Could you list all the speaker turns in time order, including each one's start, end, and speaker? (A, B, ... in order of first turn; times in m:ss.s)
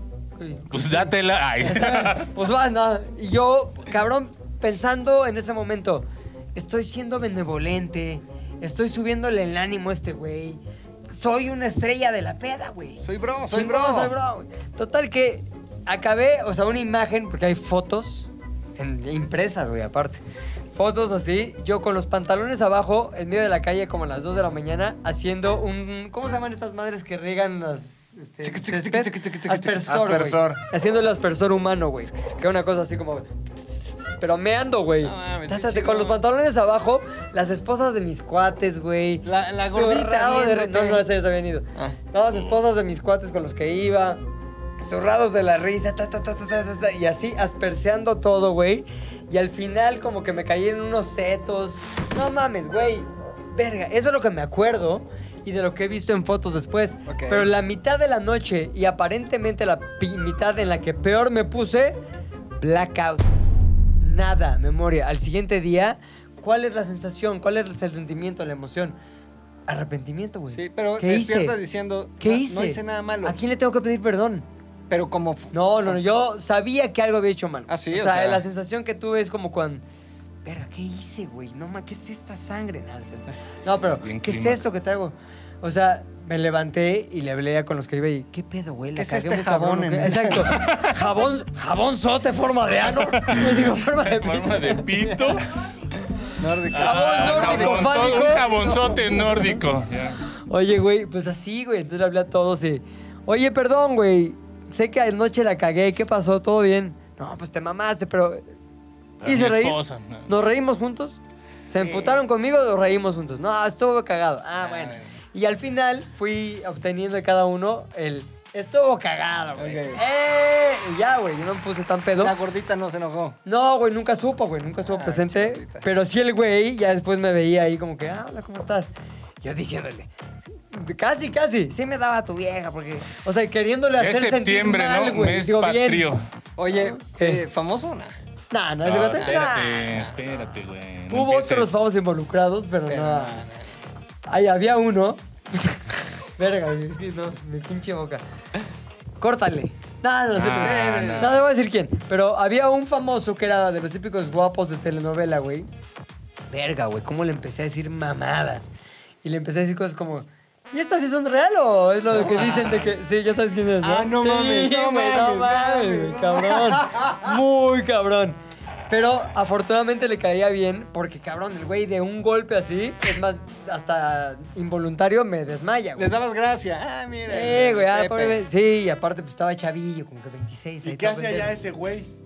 0:00.4-0:44.2 A
0:00.7-0:02.3 B
0:13.0-0:14.1 C
0:28.4-0:29.9 C
0:29.9-0:30.6 D
0:35.0-0:36.2 C
0:39.2-0:41.1 C
0:44.8-1:02.0 A
0:57.1-0:57.5 C
1:02.6-1:03.3 A
1:04.0-1:09.0 A
1:09.7-1:11.6 A
1:10.5-1:13.4 C
1:12.2-1:14.4 A
1:14.9-1:16.0 C
1:15.5-1:19.8 A
1:17.7-1:18.4 C
1:20.4-1:35.4 A
1:24.0-1:24.7 B
1:28.9-1:30.6 C
1:30.4-1:31.0 B
1:33.2-1:35.4 B
1:36.4-1:38.9 C
1:36.7-1:40.2 B
1:36.7-1:38.9 A
1:40.5-1:48.4 A
1:49.2-1:50.3 B
1:49.2-2:02.4 A
1:51.8-1:52.2 C
1:54.6-1:55.1 C
1:59.6-2:00.0 C
2:02.2-2:03.4 C
2:03.4-2:10.1 A
2:04.8-2:05.9 C
2:10.7-2:16.1 A
2:14.0-2:16.2 B
2:16.6-2:18.1 C
2:16.7-2:17.4 A
2:18.5-2:20.0 A
2:18.8-2:21.7 B
2:21.1-2:23.4 A
2:22.9-2:23.7 C
2:24.3-2:25.8 A
2:26.4-2:28.2 A
2:29.2-2:35.7 A
2:30.4-2:31.4 B
2:30.5-2:31.4 C
2:36.5-2:38.7 A
2:39.2-2:48.4 A
2:42.1-2:42.9 C
2:43.8-2:47.3 C
2:48.9-2:56.1 A
2:56.0-2:58.4 C
2:57.3-3:01.5 A
3:00.8-3:02.1 D